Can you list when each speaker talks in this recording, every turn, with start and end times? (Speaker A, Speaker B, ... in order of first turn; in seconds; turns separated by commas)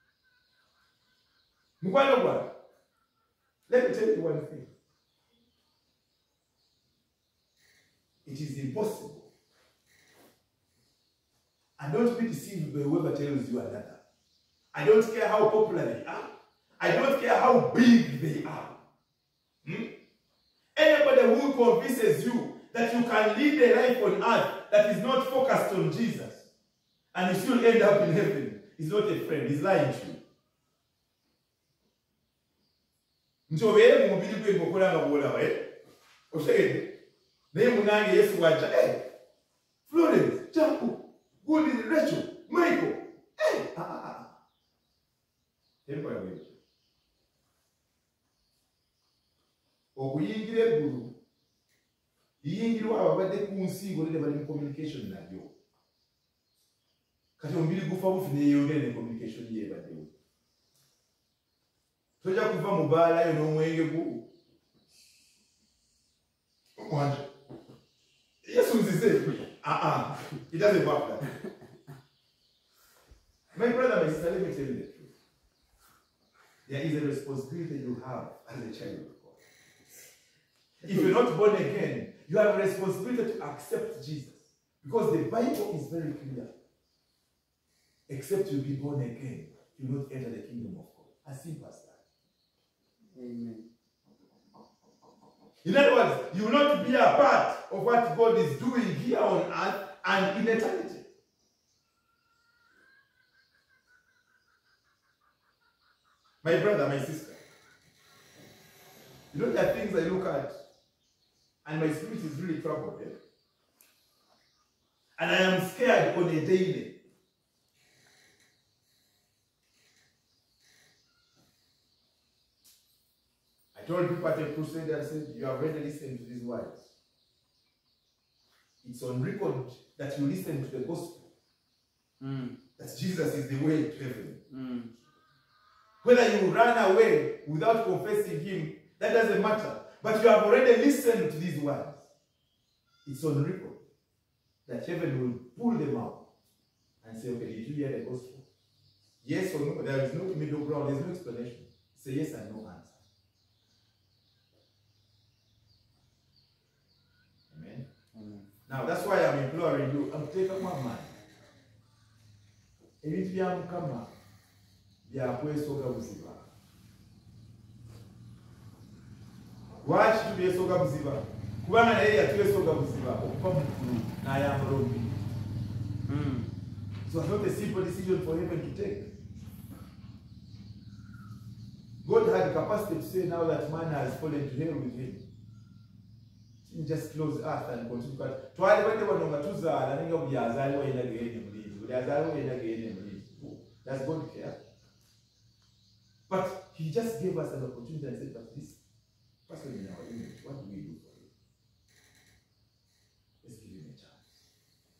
Speaker A: 1.8-2.5, Speaker A: 3.7-4.7, Speaker A: 8.2-9.3, Speaker A: 11.8-14.0, Speaker A: 14.7-18.8, Speaker A: 19.6-19.9, Speaker A: 20.8-26.4, Speaker A: 27.1-30.2, Speaker A: 33.5-35.7, Speaker A: 36.3-36.9, Speaker A: 37.5-39.0, Speaker A: 39.9-44.3, Speaker A: 45.9-46.5, Speaker A: 49.9-51.1, Speaker A: 52.4-55.5, Speaker A: 57.4-60.1, Speaker A: 62.2-64.2, Speaker A: 66.8-67.3, Speaker A: 68.4-71.2, Speaker A: 73.5-75.1, Speaker A: 76.7-79.4, Speaker A: 80.8-86.5, Speaker A: 88.1-92.0, Speaker B: 93.1-93.7, Speaker A: 95.6-101.0, Speaker A: 106.4-107.4, Speaker A: 109.3-110.5, Speaker A: 111.6-113.2, Speaker A: 115.2-116.9, Speaker A: 123.7-126.9, Speaker A: 128.8-131.3, Speaker B: 132.2-132.6, Speaker A: 132.8-134.4, Speaker B: 134.5-134.9, Speaker A: 136.0-142.0, Speaker A: 143.0-143.8, Speaker A: 144.7-146.2, Speaker A: 147.0-148.4, Speaker A: 149.2-153.0, Speaker A: 157.5-157.8, Speaker B: 158.1-158.5, Speaker A: 158.7-161.1, Speaker A: 163.0-164.1, Speaker A: 165.1-166.4, Speaker A: 169.8-175.3, Speaker B: 176.1-176.5, Speaker A: 177.1-179.2, Speaker A: 182.0-185.2, Speaker A: 186.6-194.6, Speaker A: 196.3-198.8, Speaker A: 199.5-201.3, Speaker A: 203.4-204.2